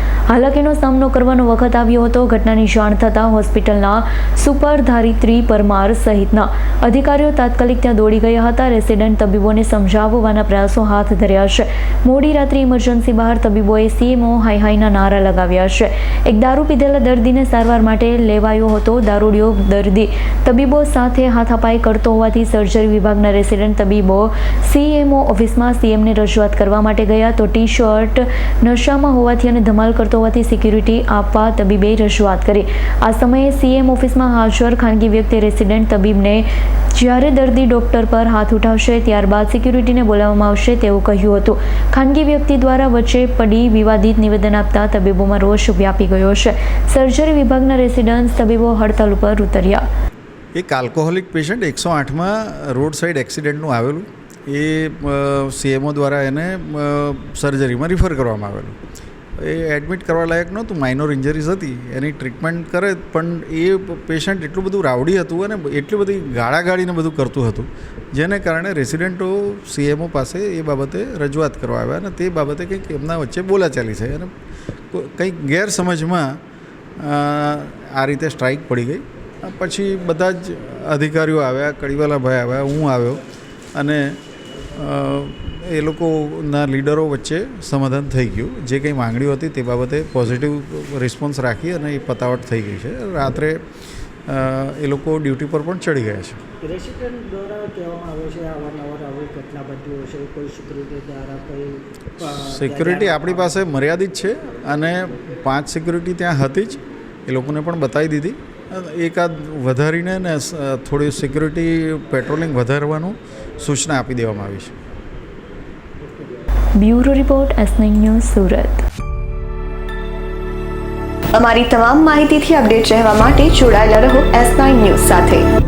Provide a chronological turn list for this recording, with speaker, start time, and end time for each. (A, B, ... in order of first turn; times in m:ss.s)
0:00.3-0:49.8 A
0:50.6-0:58.8 B
0:59.4-1:14.3 B
1:14.9-1:16.4 B
1:17.0-1:23.2 B
1:23.8-1:24.2 B
1:24.8-1:33.6 B
1:34.3-1:36.4 B
1:36.6-1:43.6 C
1:42.4-1:54.8 B
1:56.8-1:58.8 A
2:01.3-2:05.4 D